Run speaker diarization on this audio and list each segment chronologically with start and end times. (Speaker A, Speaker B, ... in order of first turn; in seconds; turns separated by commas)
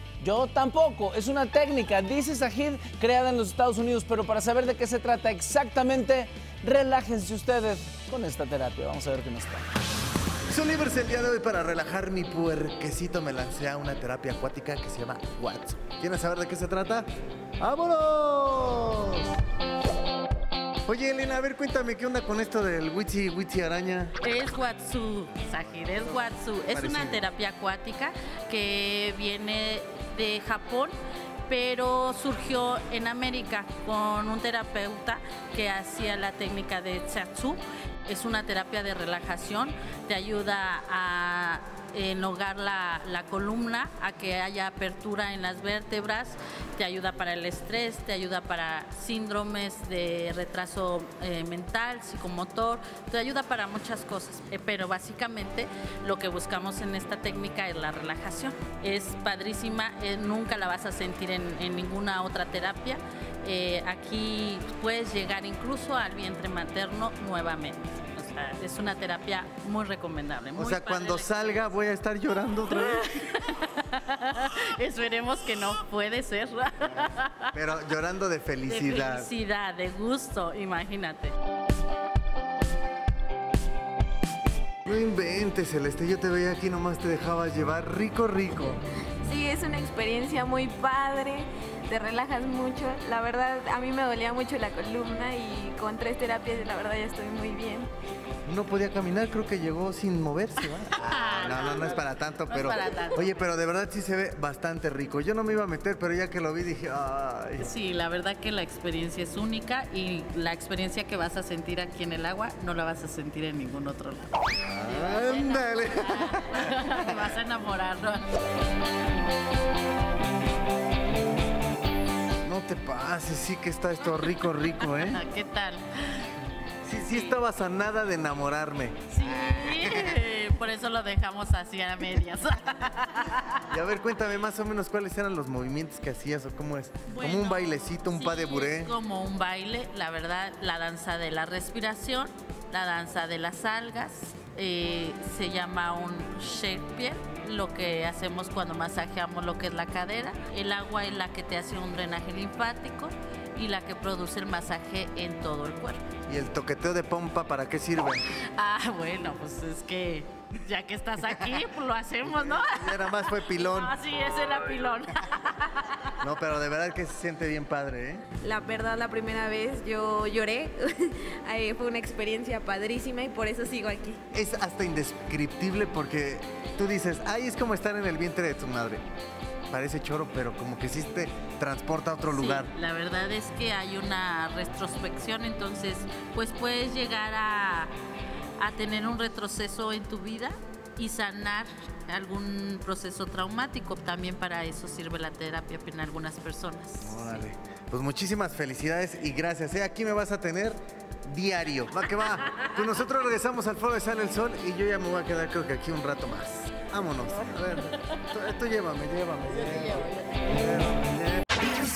Speaker A: 0.2-9.6, Speaker B: 10.5-17.1, Speaker B: 17.6-19.3, Speaker B: 20.9-24.1, Speaker C: 24.2-30.9, Speaker B: 26.7-27.2, Speaker C: 31.5-71.7, Speaker B: 70.5-73.1, Speaker C: 72.7-77.5, Speaker B: 77.5-79.3, Speaker C: 78.7-81.3, Speaker B: 84.8-88.8, Speaker D: 89.2-97.9, Speaker B: 98.5-107.7, Speaker C: 100.7-103.5, Speaker C: 107.6-118.3, Speaker B: 114.7-117.2, Speaker B: 122.4-125.2, Speaker C: 124.8-126.3, Speaker B: 126.8-129.0, Speaker C: 127.1-127.4, Speaker C: 129.1-133.7, Speaker B: 129.5-130.2, Speaker B: 133.7-138.9, Speaker C: 137.1-156.1, Speaker B: 156.3-158.2, Speaker C: 158.5-166.2, Speaker B: 161.3-161.6, Speaker B: 162.2-163.9, Speaker B: 166.2-168.2, Speaker D: 168.4-174.2, Speaker B: 174.3-179.0, Speaker B: 179.7-182.7, Speaker C: 182.3-187.9, Speaker C: 188.6-197.4, Speaker B: 197.0-211.4, Speaker C: 209.5-210.4